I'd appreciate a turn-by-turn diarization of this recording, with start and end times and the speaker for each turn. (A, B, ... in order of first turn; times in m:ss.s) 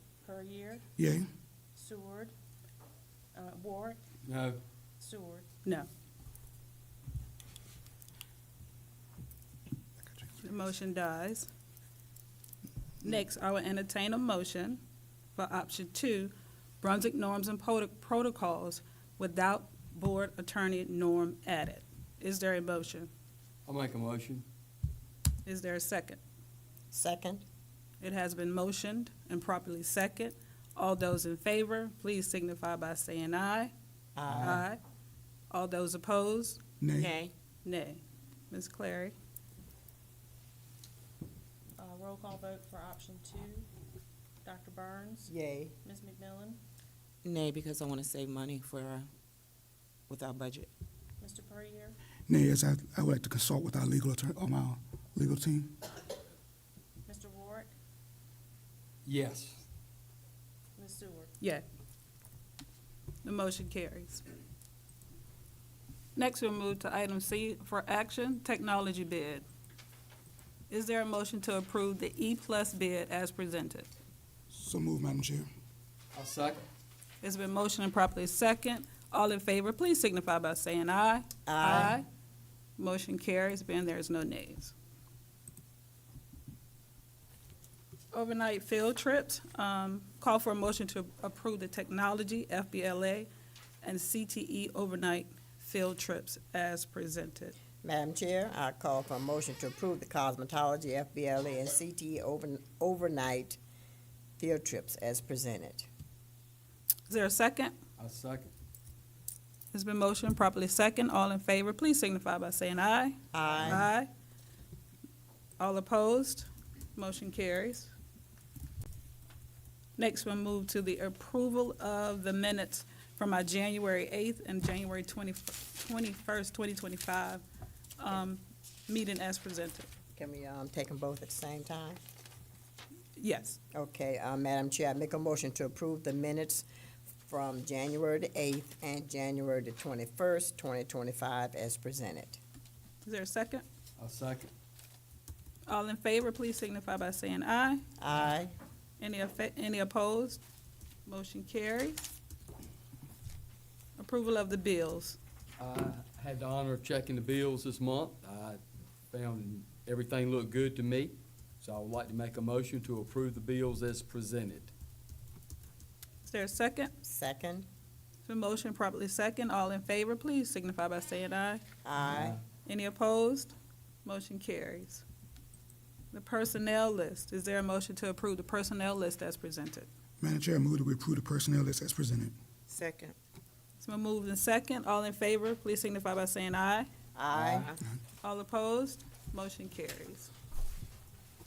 0:00.2-0:00.8 A
0:01.0-0:01.3 B
0:01.7-0:02.3 A
0:03.3-0:04.0 A
0:04.2-0:04.6 C
0:05.0-0:05.5 A
0:10.4-0:11.5 D
0:13.0-0:14.8 D
0:15.4-0:23.1 D
0:23.6-0:24.4 C
0:25.4-0:26.2 D
0:26.9-0:27.4 E
0:28.0-0:33.7 D
0:34.2-0:34.7 E
0:34.4-0:34.8 D
0:35.5-0:36.6 D
0:36.8-0:37.2 B
0:37.0-0:37.3 F
0:37.6-0:39.1 D
0:41.8-0:43.7 A
0:44.4-0:45.3 A
0:45.3-0:45.7 E
0:45.8-0:46.6 A
0:47.3-0:49.1 F
0:50.1-0:50.7 F
0:51.2-0:52.0 A
0:52.3-0:56.0 B
0:57.0-0:57.7 A
0:59.0-0:59.6 C
1:00.8-1:01.3 A
1:03.2-1:04.2 D
1:06.2-1:09.4 D
1:10.7-1:13.9 D
1:14.5-1:15.5 B
1:16.1-1:16.6 C
1:17.2-1:22.0 D
1:21.5-1:22.0 E
1:22.8-1:24.7 D
1:28.1-1:33.3 D
1:33.8-1:37.6 D
1:37.8-1:43.6 E
1:44.4-1:45.9 E
1:47.1-1:47.8 D
1:48.0-1:48.5 C
1:49.7-1:54.1 D
1:53.3-1:53.9 E
1:55.6-1:57.9 D
2:00.0-2:07.4 D
2:08.0-2:09.9 D
2:10.2-2:12.0 E
2:13.2-2:13.6 D
2:13.7-2:16.6 E
2:17.2-2:22.4 E
2:23.0-2:23.6 D
2:24.0-2:24.5 C
2:25.7-2:27.8 D
2:28.0-2:28.5 E
2:29.0-2:30.4 D
2:31.0-2:32.0 D
2:34.0-2:35.2 D
2:35.6-2:38.6 C
2:39.1-2:44.7 C
2:46.2-2:46.9 D
2:47.0-2:47.7 E
2:48.2-2:51.6 D
2:51.8-2:52.4 E
2:52.0-2:52.4 C
2:52.6-2:55.0 D
2:56.1-2:59.9 D
3:00.2-3:02.3 B
3:02.7-3:03.1 F
3:03.8-3:06.9 D
3:07.1-3:07.7 E
3:07.3-3:07.6 C
3:08.2-3:10.3 D